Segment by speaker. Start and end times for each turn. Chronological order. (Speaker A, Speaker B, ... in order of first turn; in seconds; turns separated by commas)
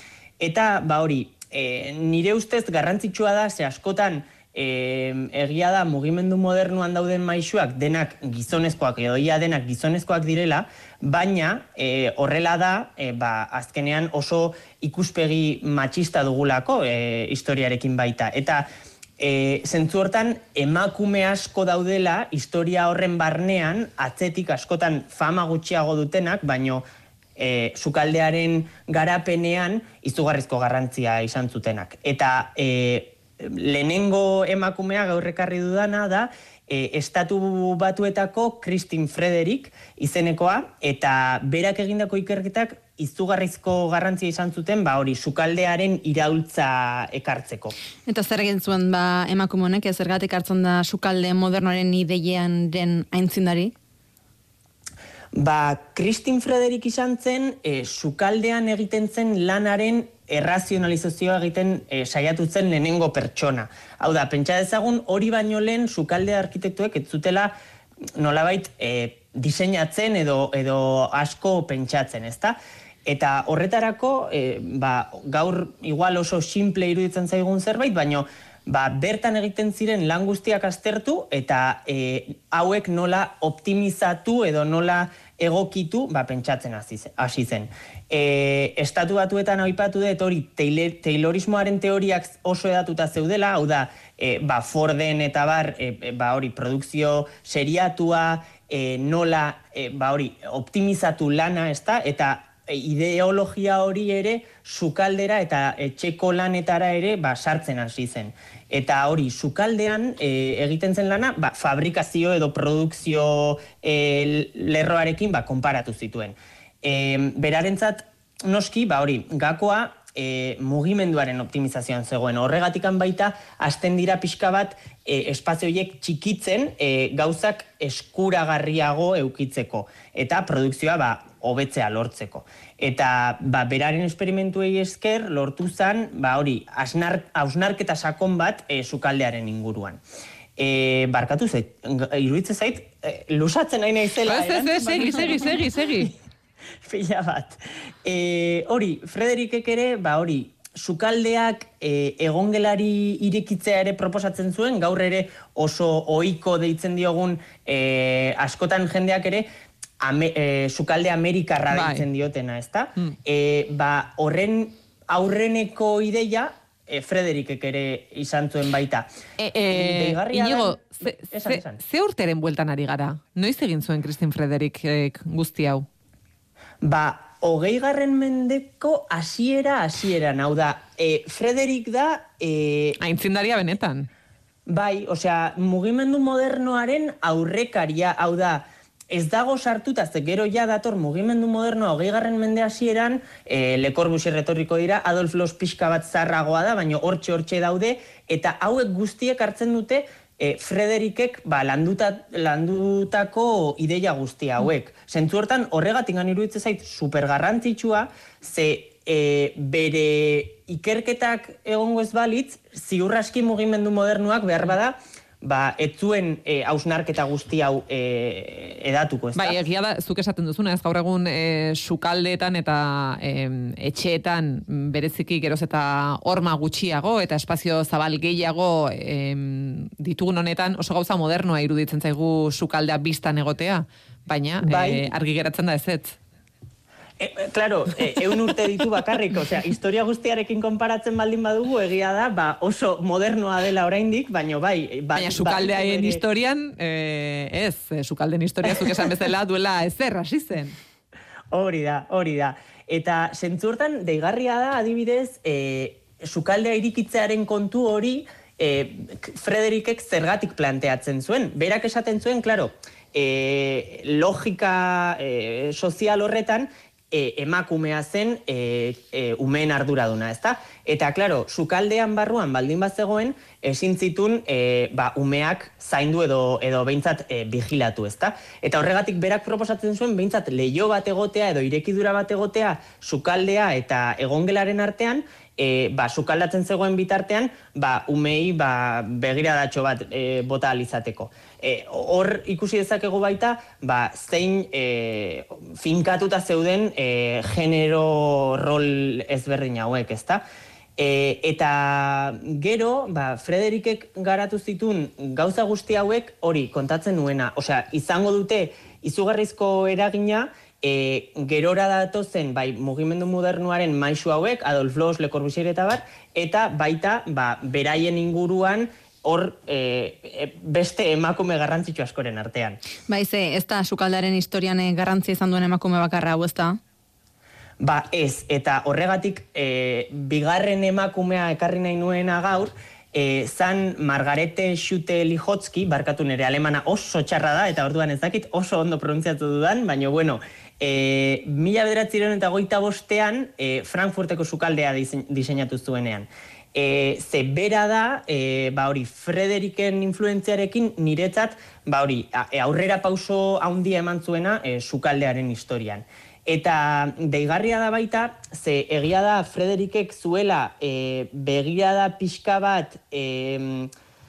Speaker A: 0.4-18.7, Speaker A: 19.2-26.9, Speaker A: 27.4-47.8, Speaker B: 48.1-53.7, Speaker A: 55.3-67.5, Speaker A: 68.2-140.0, Speaker A: 140.6-145.5, Speaker C: 144.2-146.1, Speaker A: 146.8-159.5, Speaker A: 160.0-169.1, Speaker C: 161.7-162.1, Speaker C: 169.4-175.9, Speaker A: 169.7-171.8, Speaker A: 176.8-183.0, Speaker C: 183.0-184.1, Speaker A: 184.7-219.6, Speaker C: 219.3-236.2, Speaker A: 234.6-235.1, Speaker A: 237.2-246.2, Speaker C: 245.1-250.8, Speaker A: 251.5-300.4, Speaker A: 301.0-322.8, Speaker B: 323.1-326.8, Speaker A: 327.8-363.9